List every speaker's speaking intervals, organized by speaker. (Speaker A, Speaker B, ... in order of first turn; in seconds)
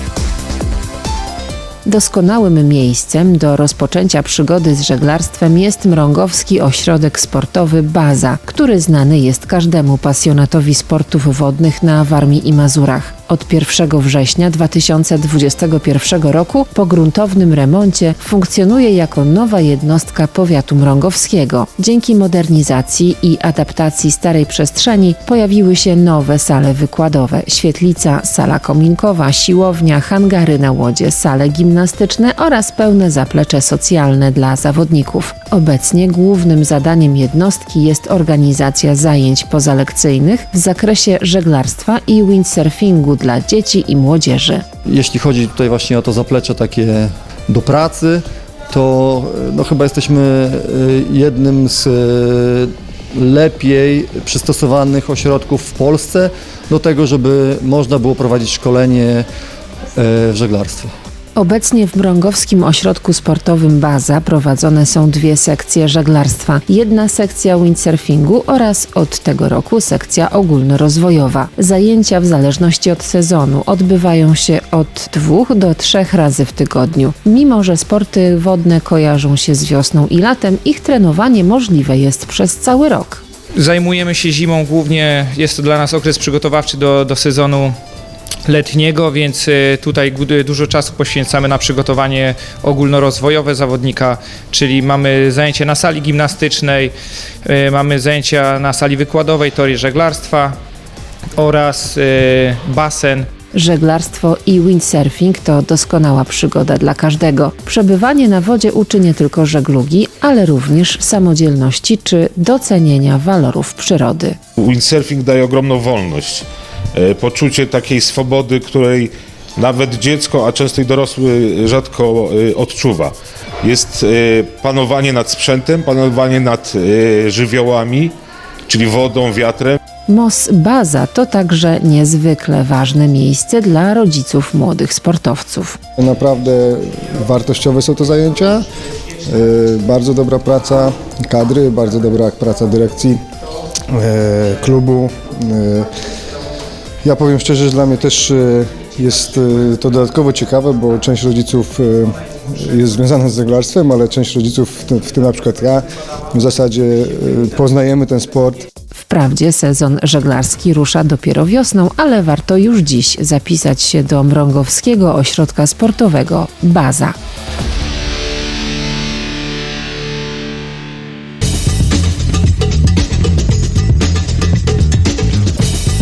Speaker A: 1.8-44.6, 61.4-83.2, 103.5-114.4, 130.1-135.8, 158.9-167.2
Speaker B: 44.9-59.2, 60.0-60.9
Speaker C: 83.6-87.7, 88.5-96.9, 97.4-100.5, 101.4-103.3
Speaker D: 114.6-128.1, 128.7-129.8
Speaker E: 136.0-138.7, 139.2-143.2, 143.9-145.9, 147.0-158.7